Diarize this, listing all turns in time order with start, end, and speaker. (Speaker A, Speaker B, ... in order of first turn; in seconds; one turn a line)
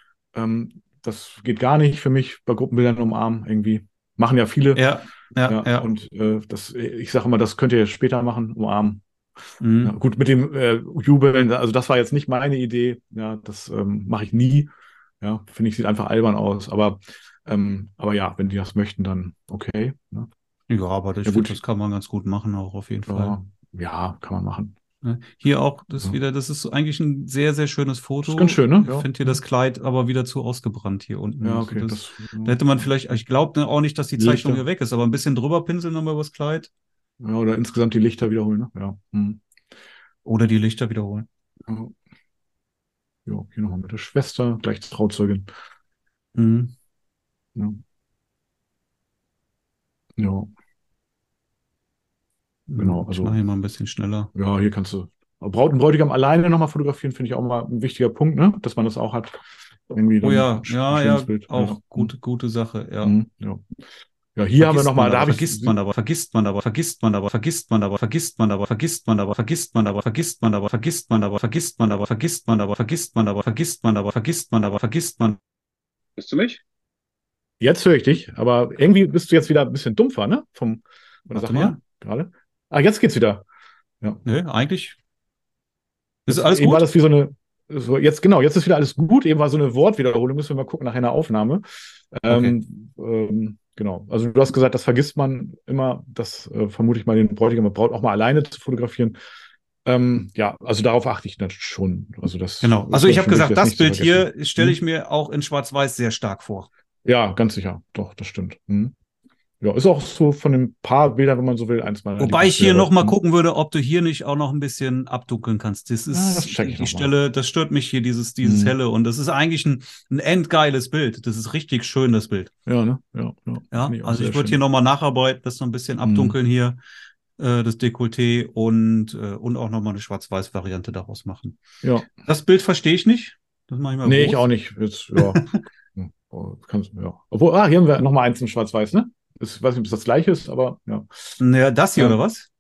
Speaker A: 0.3-4.8
Speaker B: 4.8-5.9
Speaker A: 5.5-9.0
Speaker B: 9.6-9.9
Speaker A: 9.8-14.7
Speaker A: 15.2-20.3
Speaker B: 20.7-23.4
Speaker A: 21.2-21.6
Speaker A: 23.1-24.7
Speaker B: 25.0-36.7
Speaker A: 28.2-29.4
Speaker A: 31.4-32.9
Speaker A: 34.2-34.6
Speaker A: 37.2-39.4
Speaker B: 40.2-41.3
Speaker A: 41.7-42.0
Speaker A: 43.2-45.5
Speaker B: 46.3-46.7
Speaker A: 50.2-50.5
Speaker B: 52.7-54.3
Speaker A: 52.8-53.3
Speaker A: 54.3-62.1
Speaker B: 60.2-63.2
Speaker A: 63.0-63.7
Speaker A: 64.3-65.7
Speaker B: 64.6-75.4
Speaker B: 76.2-76.6
Speaker A: 77.6-83.4
Speaker B: 81.3-81.8
Speaker B: 84.2-85.0
Speaker B: 86.2-86.9
Speaker A: 86.3-99.2
Speaker B: 92.3-92.5
Speaker A: 99.8-104.8
Speaker B: 102.6-106.7
Speaker A: 107.0-108.9
Speaker A: 109.6-113.2
Speaker B: 112.2-122.5
Speaker A: 116.1-117.1
Speaker A: 118.4-118.7
Speaker A: 122.7-124.6
Speaker B: 123.7-126.8
Speaker A: 126.0-126.3
Speaker B: 127.4-134.4
Speaker A: 131.8-132.1
Speaker A: 134.0-141.4
Speaker B: 135.2-135.6
Speaker B: 141.4-142.5